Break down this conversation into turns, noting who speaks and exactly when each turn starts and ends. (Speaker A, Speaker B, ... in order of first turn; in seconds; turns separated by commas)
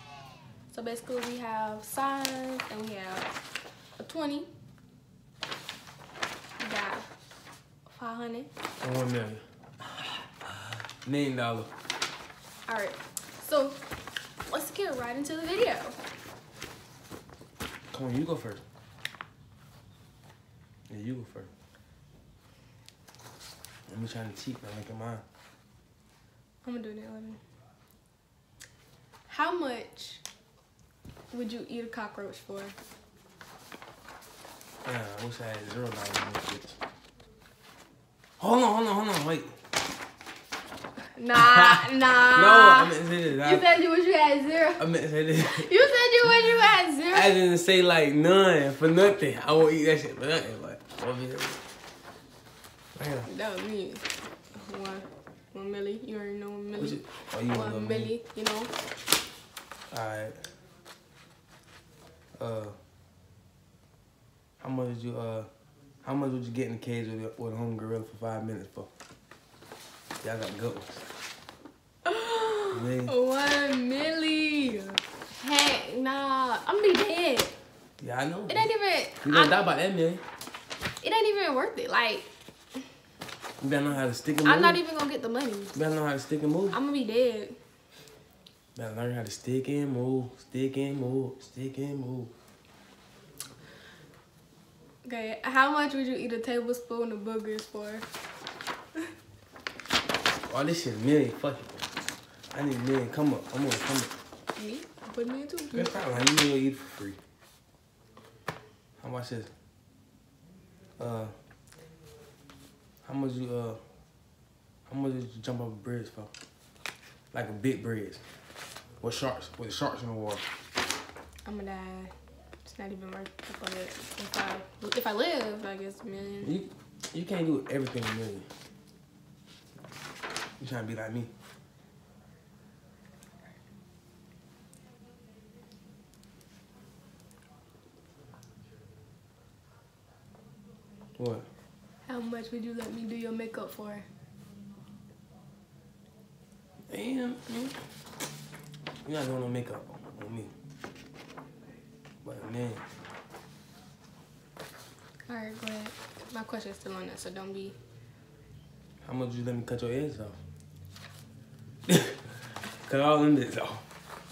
Speaker A: 0.7-3.3, Speaker A: 4.0-4.5, Speaker A: 6.6-7.1, Speaker A: 7.9-8.5, Speaker B: 8.8-9.4, Speaker B: 11.0-11.7, Speaker A: 12.7-13.8, Speaker A: 14.5-16.0, Speaker B: 17.9-18.6, Speaker B: 20.9-21.5, Speaker B: 23.9-25.2, Speaker A: 26.6-27.4, Speaker A: 29.3-30.2, Speaker A: 31.3-32.8, Speaker B: 34.8-36.8, Speaker B: 38.4-39.5, Speaker A: 41.2-44.8, Speaker B: 41.4-43.8, Speaker B: 44.8-45.9, Speaker A: 45.4-47.4, Speaker B: 47.1-51.6, Speaker B: 53.0-53.3, Speaker A: 53.2-58.7, Speaker B: 56.8-58.1, Speaker B: 59.9-60.4, Speaker B: 62.4-62.8, Speaker B: 64.6-65.5, Speaker B: 66.0-68.9, Speaker B: 70.2-71.0, Speaker A: 72.0-77.5, Speaker B: 72.7-73.1, Speaker B: 78.0-78.7, Speaker A: 78.5-79.6, Speaker B: 79.2-80.2, Speaker A: 81.0-82.3, Speaker B: 83.6-84.8, Speaker A: 84.5-85.7, Speaker B: 85.7-86.8, Speaker A: 86.7-87.6, Speaker B: 88.8-92.3, Speaker A: 95.0-98.1, Speaker B: 100.5-101.8, Speaker B: 102.5-104.1, Speaker A: 104.6-106.3, Speaker B: 105.7-107.2, Speaker B: 109.0-109.5, Speaker B: 111.0-111.3, Speaker B: 113.0-113.8, Speaker B: 114.9-116.3, Speaker B: 117.3-118.2, Speaker B: 119.0-120.4, Speaker A: 121.5-122.1, Speaker A: 122.7-126.5, Speaker B: 126.4-128.5, Speaker B: 130.6-131.3, Speaker B: 141.2-141.5, Speaker A: 142.1-144.1, Speaker B: 146.9-147.8, Speaker B: 149.0-150.5, Speaker B: 152.2-152.8, Speaker A: 155.3-157.8, Speaker B: 159.0-160.4, Speaker B: 161.9-162.2, Speaker B: 162.9-163.8